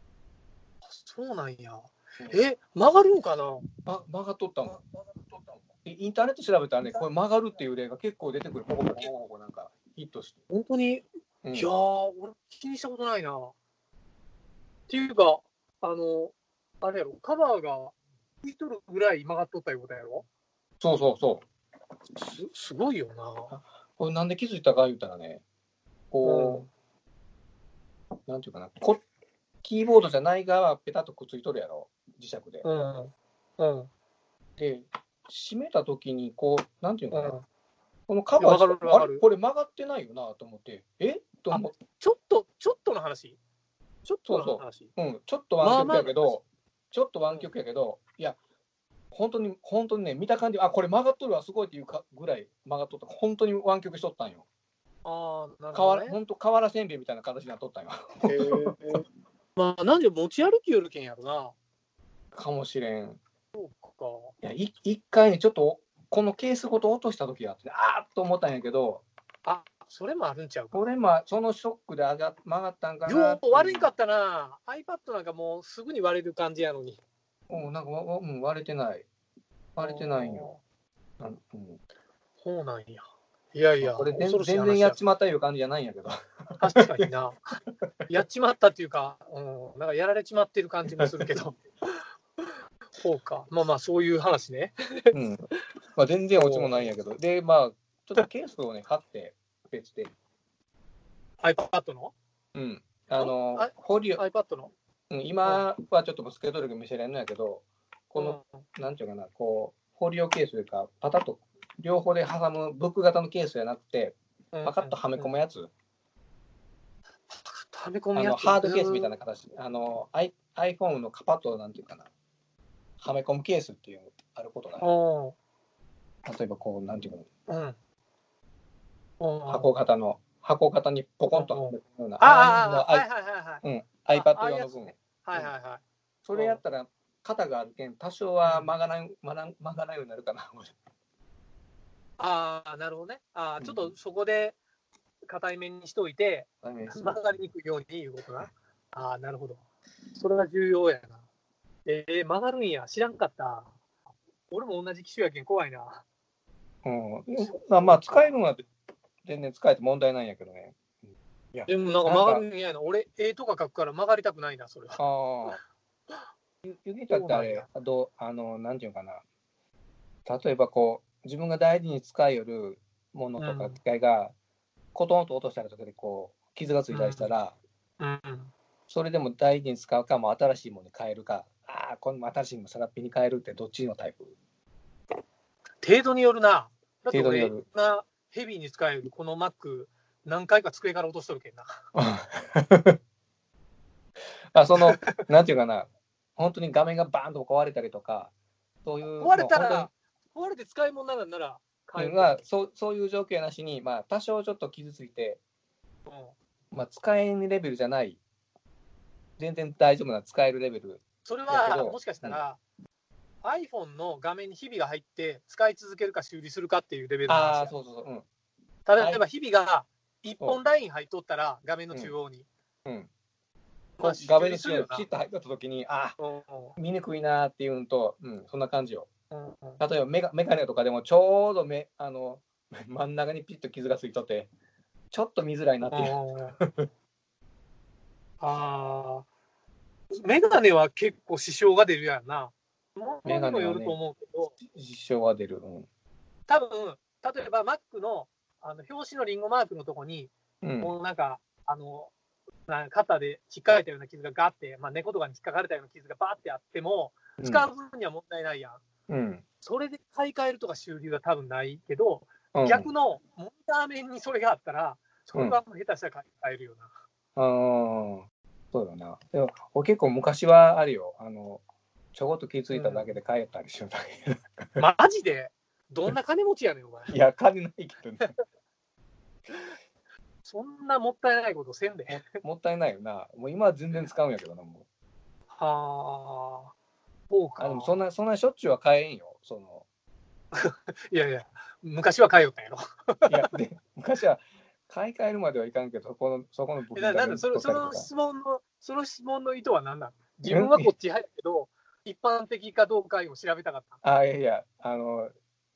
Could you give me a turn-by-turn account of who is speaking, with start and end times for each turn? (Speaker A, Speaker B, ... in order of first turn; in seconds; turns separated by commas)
Speaker A: 0.8-3.7, Speaker B: 3.8-4.8, Speaker B: 5.8-10.4, Speaker A: 10.5-13.5, Speaker B: 11.4-11.7, Speaker A: 14.9-20.2, Speaker B: 20.8-21.4, Speaker A: 22.1-23.5, Speaker B: 23.5-25.4, Speaker B: 26.1-26.6, Speaker A: 26.2-26.7, Speaker B: 28.3-29.0, Speaker B: 29.6-32.7, Speaker A: 32.6-33.9, Speaker B: 34.6-37.4, Speaker A: 37.1-37.4, Speaker B: 38.1-41.8, Speaker A: 38.4-39.2, Speaker A: 41.5-43.4, Speaker A: 44.0-44.9, Speaker B: 44.2-48.4, Speaker A: 45.6-46.4, Speaker B: 49.1-54.4, Speaker A: 55.0-56.2, Speaker B: 55.7-58.7, Speaker A: 58.2-59.0, Speaker A: 59.5-61.5, Speaker B: 62.3-63.2, Speaker A: 63.5-64.3, Speaker B: 64.4-69.0, Speaker A: 69.4-70.9, Speaker B: 70.7-73.9, Speaker A: 73.0-77.0, Speaker B: 77.5-79.1, Speaker B: 79.8-80.5, Speaker A: 79.8-80.6, Speaker B: 81.2-81.8, Speaker A: 82.4-85.0, Speaker B: 83.8-87.1, Speaker A: 86.6-87.6, Speaker A: 88.1-91.6, Speaker A: 92.4-95.1, Speaker B: 95.1-100.1, Speaker A: 96.3-97.0, Speaker A: 101.4-102.1, Speaker B: 102.5-104.2, Speaker A: 103.2-104.7, Speaker B: 105.1-115.7, Speaker A: 108.2-108.4, Speaker A: 114.5-115.3, Speaker A: 117.3-119.2, Speaker B: 118.1-122.1, Speaker B: 123.0-124.9, Speaker A: 124.8-125.3, Speaker B: 126.2-127.3, Speaker A: 127.5-127.8, Speaker A: 129.2-129.7, Speaker B: 129.5-133.1, Speaker A: 131.3-135.8, Speaker B: 133.6-135.5, Speaker B: 136.2-140.7, Speaker A: 136.3-136.6, Speaker A: 138.4-138.7, Speaker A: 142.2-144.6, Speaker B: 143.6-143.9, Speaker A: 145.3-149.6, Speaker B: 146.6-147.4, Speaker A: 150.1-151.2, Speaker A: 151.8-153.7, Speaker A: 154.5-156.0, Speaker B: 156.8-158.7, Speaker A: 157.4-158.3, Speaker B: 159.2-160.8, Speaker B: 161.5-162.5, Speaker A: 161.7-165.5, Speaker B: 165.0-165.6, Speaker B: 166.6-169.2, Speaker A: 167.1-167.7, Speaker B: 170.2-174.3, Speaker A: 173.4-173.8, Speaker B: 174.9-177.6, Speaker A: 176.9-177.3, Speaker A: 178.0-178.5, Speaker B: 178.9-184.3, Speaker A: 185.8-191.7, Speaker B: 187.1-187.6, Speaker B: 191.9-193.0, Speaker B: 194.5-198.3, Speaker A: 194.8-195.1, Speaker B: 198.8-199.9, Speaker A: 199.1-202.4, Speaker B: 201.9-205.4, Speaker A: 206.1-206.3, Speaker B: 206.7-208.2, Speaker B: 209.4-212.4, Speaker A: 211.2-212.6, Speaker A: 213.4-217.7, Speaker B: 217.3-218.2, Speaker A: 218.8-222.5, Speaker B: 218.9-219.2, Speaker A: 224.0-225.1, Speaker B: 224.0-226.2, Speaker A: 226.2-226.7, Speaker B: 226.8-229.1, Speaker A: 229.3-229.8, Speaker B: 229.8-234.5, Speaker B: 235.1-236.9, Speaker A: 235.9-236.6, Speaker A: 238.4-239.3, Speaker A: 240.1-244.6, Speaker B: 243.2-244.0, Speaker B: 244.7-245.9, Speaker A: 246.5-252.1, Speaker B: 250.6-250.9, Speaker A: 252.7-258.8, Speaker B: 257.4-257.7, Speaker B: 259.1-259.4, Speaker A: 259.6-266.9, Speaker B: 262.5-262.9, Speaker B: 265.3-265.6, Speaker B: 267.4-271.6, Speaker B: 272.1-274.8, Speaker A: 272.7-273.2, Speaker A: 274.8-277.2, Speaker B: 277.1-278.3, Speaker A: 280.4-282.2, Speaker B: 282.1-284.8, Speaker A: 285.5-286.7, Speaker A: 287.3-288.0, Speaker B: 287.6-289.8, Speaker A: 290.5-293.5, Speaker B: 293.3-298.1, Speaker A: 296.9-304.0, Speaker B: 300.4-300.9, Speaker B: 304.0-305.3